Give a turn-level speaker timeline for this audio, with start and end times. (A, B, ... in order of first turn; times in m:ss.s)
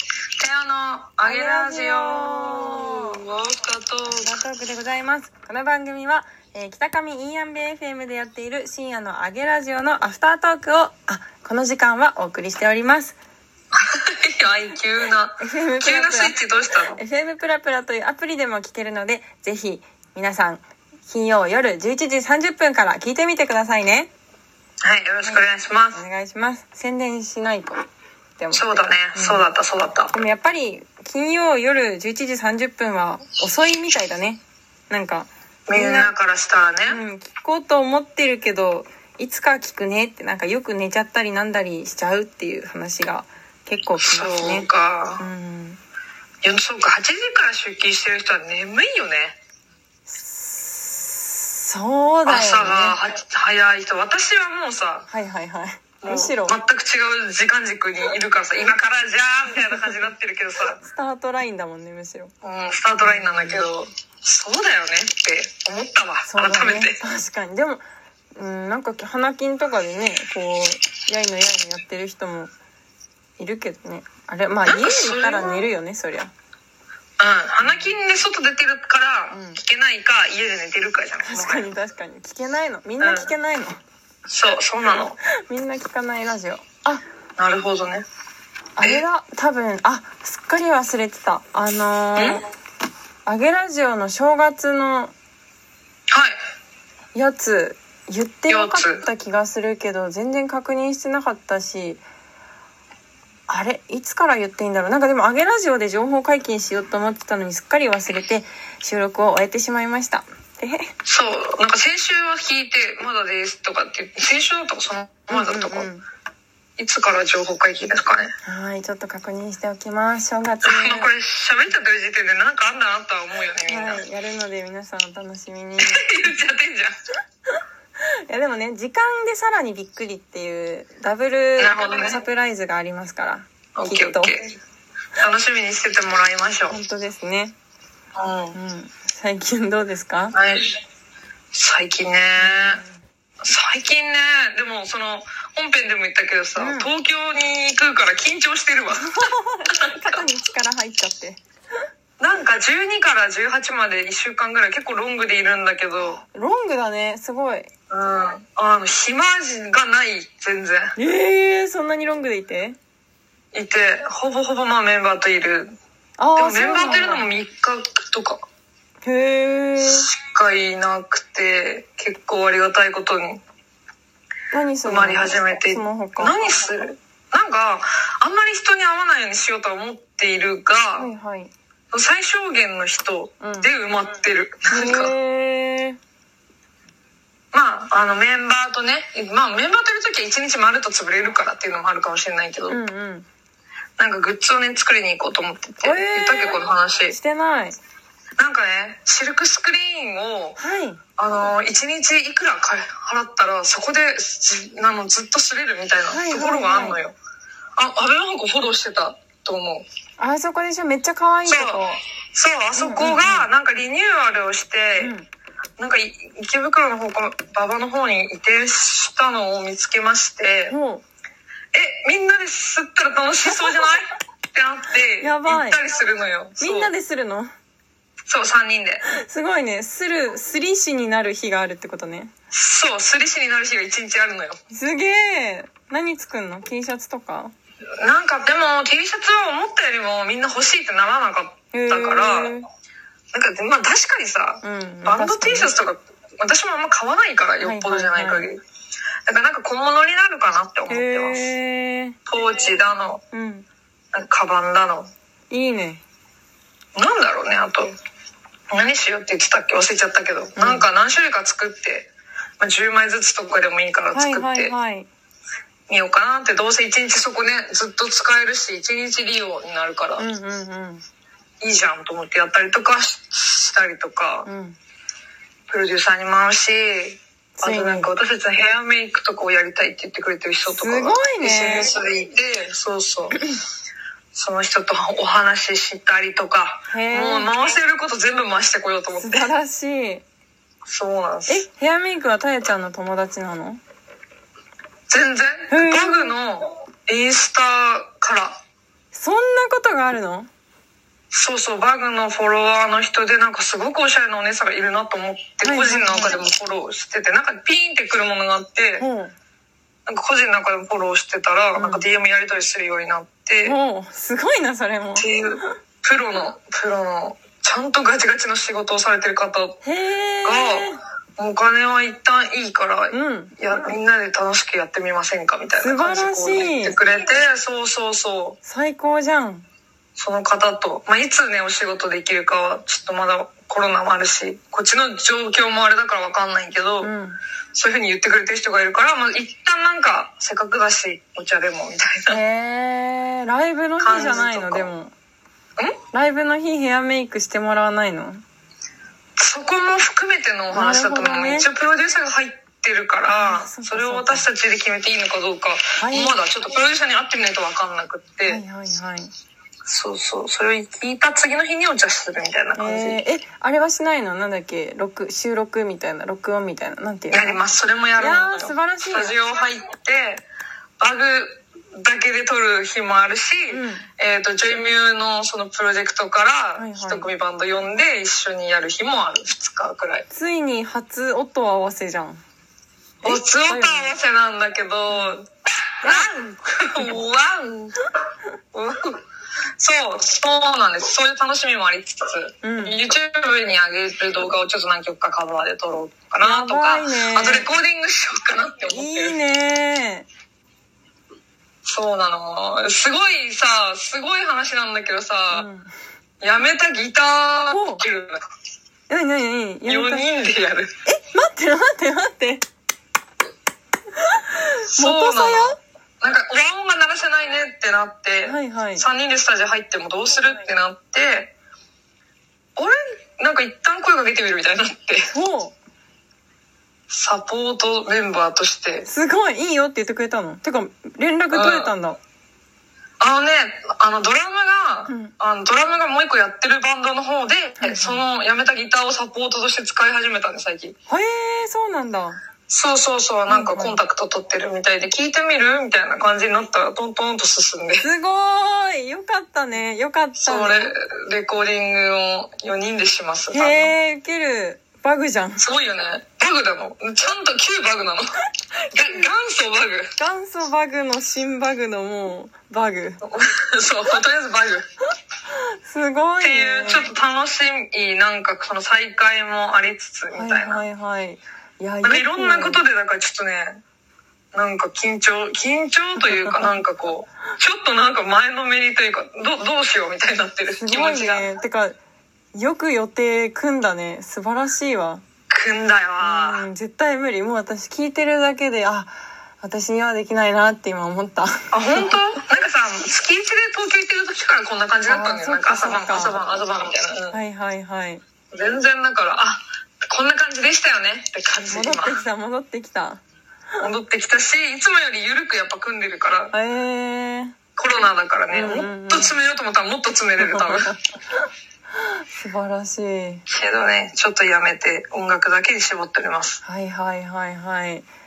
0:00.4-0:04.3 A
0:01.2-0:03.2 B
0:04.1-0:13.2 B
0:13.7-0:17.0 A
0:15.4-0:16.4 B
0:16.9-0:24.1 B
0:24.8-0:26.0 A
0:25.2-0:27.8 B
0:28.4-0:29.5 B
0:28.5-0:30.1 A
0:30.1-0:36.1 B
0:35.7-0:37.0 A
0:36.9-0:44.7 B
0:44.0-0:45.2 A
0:45.2-0:45.8 B
0:46.4-0:49.4 A
0:50.1-0:53.0 B
0:52.3-0:55.1 A
0:55.1-0:56.6 B
0:56.0-1:00.8 A
1:00.8-1:02.3 B
1:02.4-1:07.0 A
1:03.0-1:03.6 B
1:06.3-1:07.8 B
1:08.3-1:12.5 B
1:13.4-1:16.3 B
1:14.7-1:15.7 A
1:17.2-1:21.7 A
1:17.6-1:18.0 B
1:19.3-1:19.6 B
1:21.2-1:23.8 B
1:23.0-1:23.3 A
1:24.3-1:25.2 A
1:25.5-1:27.0 B
1:27.4-1:28.0 A
1:28.8-1:32.4 B
1:32.2-1:32.4 A
1:33.2-1:35.1 B
1:36.1-1:36.4 A
1:37.1-1:42.0 B
1:38.5-1:39.1 A
1:43.5-1:50.9 B
1:51.0-1:55.9 A
1:55.3-1:56.0 B
1:56.8-1:58.3 A
1:58.4-2:01.1 B
2:00.7-2:04.0 A
2:03.7-2:06.3 B
2:05.8-2:06.9 A
2:08.3-2:14.3 B
2:11.6-2:12.2 A
2:13.8-2:14.5 A
2:15.2-2:16.8 A
2:16.7-2:17.6 B
2:18.2-2:18.6 A
2:18.5-2:20.4 B
2:20.3-2:20.8 A
2:21.5-2:22.8 A
2:22.4-2:23.0 B
2:23.4-2:29.2 A
2:26.6-2:26.9 B
2:29.0-2:31.4 B
2:29.8-2:30.2 A
2:32.2-2:36.2 A
2:36.2-2:37.7 B
2:37.9-2:40.9 A
2:41.0-2:42.8 B
2:43.5-2:45.7 A
2:46.2-2:47.3 B
2:46.3-2:48.4 A
2:49.0-2:50.1 B
2:49.8-2:53.4 A
2:54.5-2:56.3 B
2:54.8-3:01.1 A
3:01.0-3:01.5 B
3:01.9-3:05.1 A
3:03.4-3:03.7 B
3:04.7-3:06.0 B
3:07.5-3:12.8 A
3:12.7-3:13.3 B
3:14.0-3:17.2 A
3:15.8-3:17.8 B
3:18.4-3:20.6 A
3:20.6-3:21.0 B
3:21.2-3:27.2 A
3:26.1-3:27.0 B
3:27.8-3:29.8 A
3:30.2-3:32.0 B
3:31.5-3:35.1 A
3:32.8-3:33.5 B
3:35.0-3:35.3 B
3:35.8-3:40.8 A
3:40.7-3:41.0 B
3:41.7-3:46.9 A
3:45.2-3:45.8 B
3:46.6-3:47.5 B
3:48.3-3:49.0 A
3:49.1-3:52.3 B
3:52.5-3:54.6 A
3:54.7-3:57.5 B
3:58.0-4:02.6 A
4:01.7-4:02.7 B
4:03.3-4:08.6 A
4:04.6-4:05.7 B
4:07.6-4:08.5 B
4:09.3-4:11.5 A
4:10.9-4:12.2 B
4:12.3-4:13.2 A
4:13.3-4:13.7 B
4:14.1-4:15.1 A
4:15.5-4:16.0 B
4:17.0-4:18.0 A
4:18.7-4:24.7 A
4:20.6-4:20.9 B
4:24.1-4:25.1 B
4:25.9-4:30.2 A
4:30.2-4:31.0 B
4:31.6-4:34.5 A
4:34.4-4:34.8 B
4:35.7-4:43.4 A
4:37.6-4:38.1 B
4:40.7-4:41.9 B
4:44.3-4:49.4 A
4:46.9-4:47.5 B
4:49.1-4:50.2 B
4:50.9-4:51.6 A
4:51.5-4:53.8 B
4:55.1-4:58.6 A
4:55.7-4:56.4 B
4:59.1-5:00.5 B
5:01.3-5:09.1 A
5:05.6-5:06.4 B
5:09.0-5:09.4 B
5:10.1-5:13.8 A
5:11.8-5:12.1 B
5:13.6-5:15.8 B
5:15.2-5:19.8 A
5:19.8-5:21.0 B
5:20.4-5:28.6 A
5:23.1-5:23.5 B
5:25.8-5:27.0 B
5:28.6-5:29.7 B
5:30.2-5:37.1 A
5:37.0-5:37.4 B
5:37.7-5:42.4 A
5:42.3-5:45.1 B
5:44.0-5:44.9 A
5:46.1-5:48.4 B
5:49.4-5:58.6 A
5:50.7-5:51.7 B
5:53.3-5:54.5 B
5:56.0-5:56.4 B
5:58.4-5:59.3 B
5:59.9-6:03.2 A
6:02.8-6:07.6 B
6:07.3-6:10.4 A
6:08.2-6:09.4 B
6:11.0-6:20.3 A
6:13.7-6:14.1 B
6:16.8-6:17.3 B
6:20.3-6:22.4 B
6:23.2-6:24.2 B
6:23.2-6:25.5 A
6:25.1-6:25.4 B
6:26.0-6:28.0 A
6:26.0-6:27.1 B
6:28.7-6:29.2 A
6:29.8-6:39.4 A
6:32.6-6:33.0 B
6:36.4-6:37.7 B
6:38.9-6:40.3 B
6:41.9-6:45.7 A
6:45.5-6:45.9 B
6:46.4-6:48.4 A
6:47.7-6:48.0 B
6:49.1-6:50.3 B
6:49.9-6:50.9 A
6:51.1-6:52.6 B
6:54.2-6:55.8 B
6:55.0-7:01.5 A
6:58.4-6:59.0 B
7:02.8-7:05.3 A
7:05.3-7:05.8 B
7:07.1-7:09.1 A
7:09.1-7:12.2 B
7:11.5-7:11.9 A
7:13.2-7:20.9 A
7:15.1-7:15.3 B
7:17.8-7:18.2 B
7:21.1-7:22.4 B
7:22.7-7:28.0 A
7:23.5-7:24.0 B
7:28.0-7:30.9 B
7:30.4-7:33.9 A
7:33.5-7:35.6 B
7:35.6-7:38.2 A
7:38.9-7:40.1 A
7:40.2-7:43.2 B
7:43.2-7:44.8 A
7:45.5-7:47.1 B
7:46.4-7:50.8 A
7:50.3-7:52.8 B
7:52.0-7:53.8 A
7:54.5-8:01.4 A
8:00.7-8:02.0 B
8:02.5-8:05.2 B
8:05.5-8:06.6 A
8:06.2-8:12.1 B
8:11.7-8:17.4 A
8:15.1-8:16.5 B
8:17.3-8:18.2 B
8:18.5-8:22.2 A
8:21.7-8:23.2 B
8:23.8-8:26.5 A
8:26.5-8:27.6 B
8:27.8-8:30.9 A
8:28.5-8:29.3 B
8:30.4-8:31.4 B
8:32.3-8:33.4 B
8:33.5-8:36.6 A
8:36.6-8:38.1 B